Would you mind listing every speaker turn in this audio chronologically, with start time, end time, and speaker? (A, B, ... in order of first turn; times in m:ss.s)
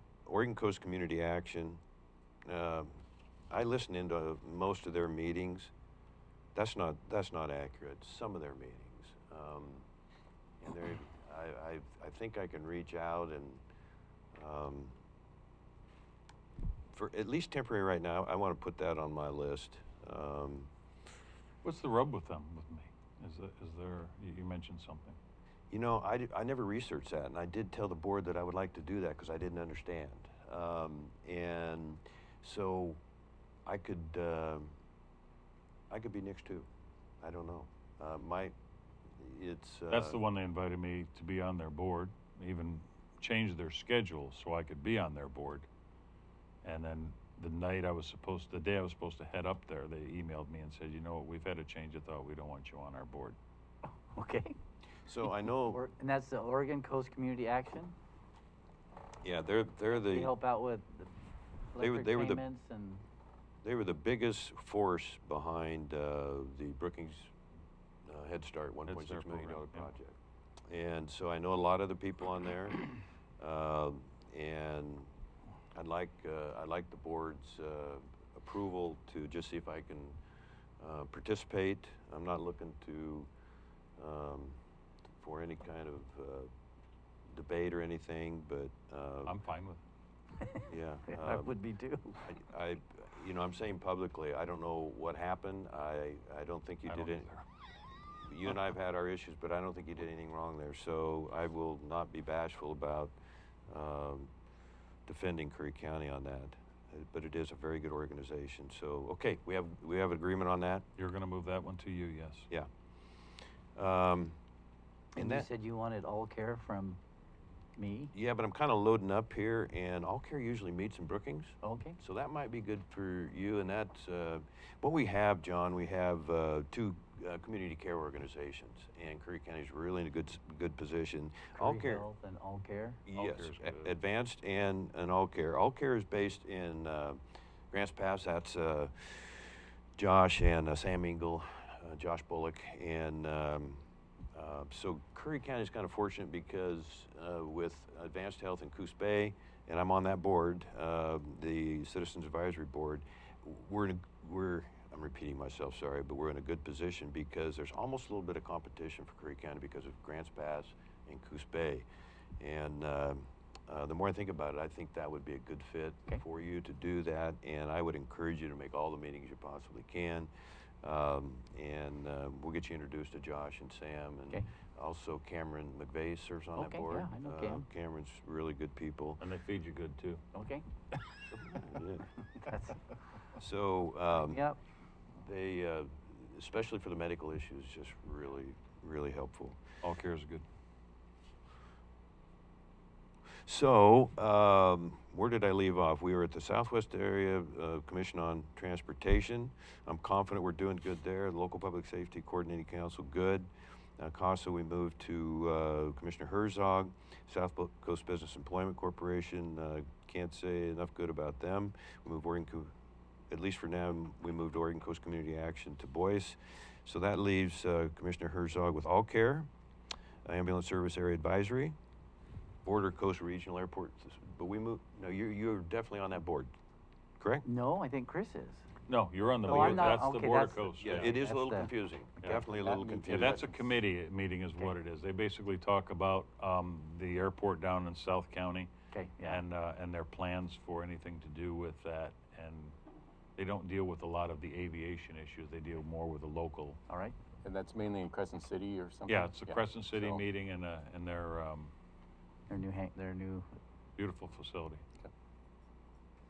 0:00.3-0:01.8 A
0:02.5-0:05.7 A
0:06.6-0:09.9 A
0:10.6-0:13.6 A
0:14.3-0:15.0 A
0:16.9-0:20.7 A
0:21.6-0:25.2 B
0:25.7-0:33.0 A
0:33.7-0:34.7 A
0:35.9-0:36.7 A
0:37.2-0:38.6 A
0:39.2-0:40.2 A
0:39.9-0:45.7 B
0:46.6-0:53.4 B
0:54.1-0:54.6 C
0:55.0-0:55.8 A
0:55.7-0:58.0 C
0:59.2-1:00.3 A
0:59.9-1:01.2 C
1:01.7-1:03.0 C
1:01.8-1:02.4 A
1:03.6-1:07.3 A
1:08.1-1:10.2 A
1:08.9-1:09.9 B
1:10.7-1:12.9 A
1:13.4-1:15.1 A
1:15.7-1:20.2 A
1:20.8-1:23.3 A
1:24.0-1:24.6 A
1:25.2-1:26.5 A
1:27.3-1:29.4 A
1:29.2-1:29.8 B
1:30.4-1:32.3 C
1:30.7-1:31.6 A
1:32.2-1:37.3 A
1:36.9-1:37.4 B
1:38.2-1:43.2 A
1:43.7-1:44.3 A
1:45.1-1:50.8 A
1:51.0-1:52.5 B
1:53.8-1:54.4 A
1:55.2-1:57.0 C
1:55.2-1:55.5 A
1:57.8-1:58.1 C
1:58.1-2:12.1 A
2:01.6-2:02.0 C
2:11.6-2:13.0 C
2:13.1-2:17.2 A
2:13.1-2:14.0 B
2:17.7-2:41.9 A
2:42.4-2:50.3 A
2:50.8-2:59.2 A
2:56.6-2:57.7 C
2:59.2-3:00.2 B
3:00.3-3:00.7 C
3:01.3-3:02.1 A
3:02.4-3:02.8 C
3:03.4-3:04.5 A
3:04.2-3:04.6 C
3:05.2-3:09.6 A
3:09.8-3:10.5 B
3:13.4-3:32.7 A
3:33.3-3:39.5 A
3:40.2-3:41.8 A
3:42.6-3:46.5 A
3:47.2-3:47.5 A
3:47.4-3:48.7 C
3:48.9-3:51.2 B
3:49.4-3:50.0 A
3:49.5-3:51.7 C
3:50.8-3:53.5 A
3:52.2-3:52.5 B
3:52.7-3:53.3 D
3:53.0-3:58.7 B
3:58.9-3:59.4 C
3:59.2-4:02.8 B
4:03.4-4:06.8 B
4:06.9-4:07.2 C
4:07.4-4:10.2 D
4:09.1-4:11.7 B
4:12.5-4:13.5 C
4:14.0-4:14.8 B